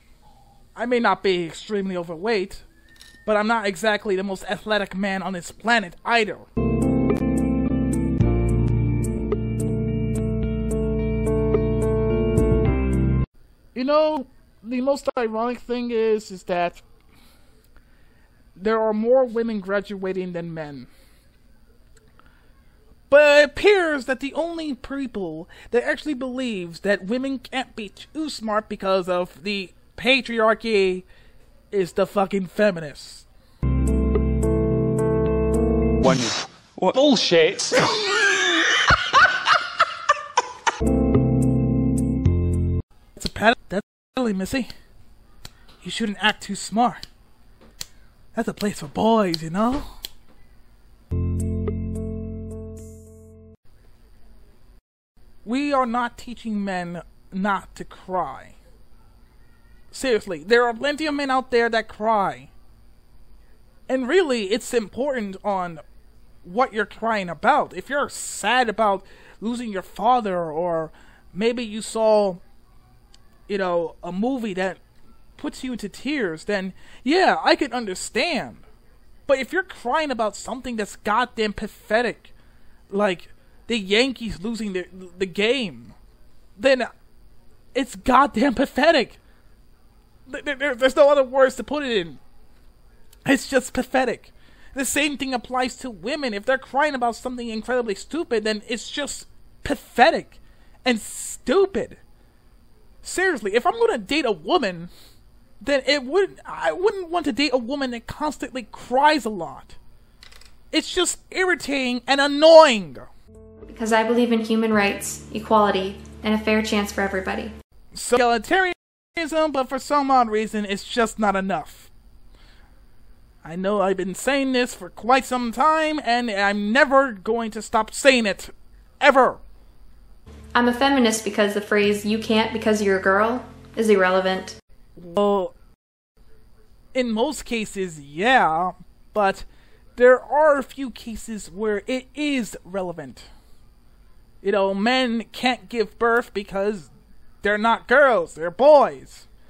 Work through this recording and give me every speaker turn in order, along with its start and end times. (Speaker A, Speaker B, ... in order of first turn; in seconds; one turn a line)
Speaker A: 0.8-2.6
Speaker A: 3.2-6.5
Speaker A: 13.7-16.8
Speaker A: 18.6-20.9
Speaker A: 23.1-31.0
Speaker A: 31.7-33.3
Speaker B: 36.0-38.2
Speaker A: 43.1-44.7
Speaker A: 45.8-47.0
Speaker A: 48.3-49.9
Speaker A: 55.4-58.6
Speaker A: 59.9-62.5
Speaker A: 63.9-65.8
Speaker A: 66.4-72.4
Speaker A: 73.5-74.8
Speaker A: 75.3-78.6
Speaker A: 79.3-82.3
Speaker A: 82.9-86.0
Speaker A: 86.6-86.9
Speaker A: 87.7-89.2
Speaker A: 90.3-92.2
Speaker A: 93.2-102.0
Speaker A: 103.0-104.9
Speaker A: 105.6-109.8
Speaker A: 110.7-113.1
Speaker C: 113.7-117.5
Speaker A: 117.9-121.9
Speaker A: 123.4-129.4
Speaker C: 130.5-134.6
Speaker A: 135.0-135.5
Speaker A: 136.9-139.4
Speaker A: 140.0-143.3
Speaker A: 144.4-146.9
Speaker A: 147.4-149.3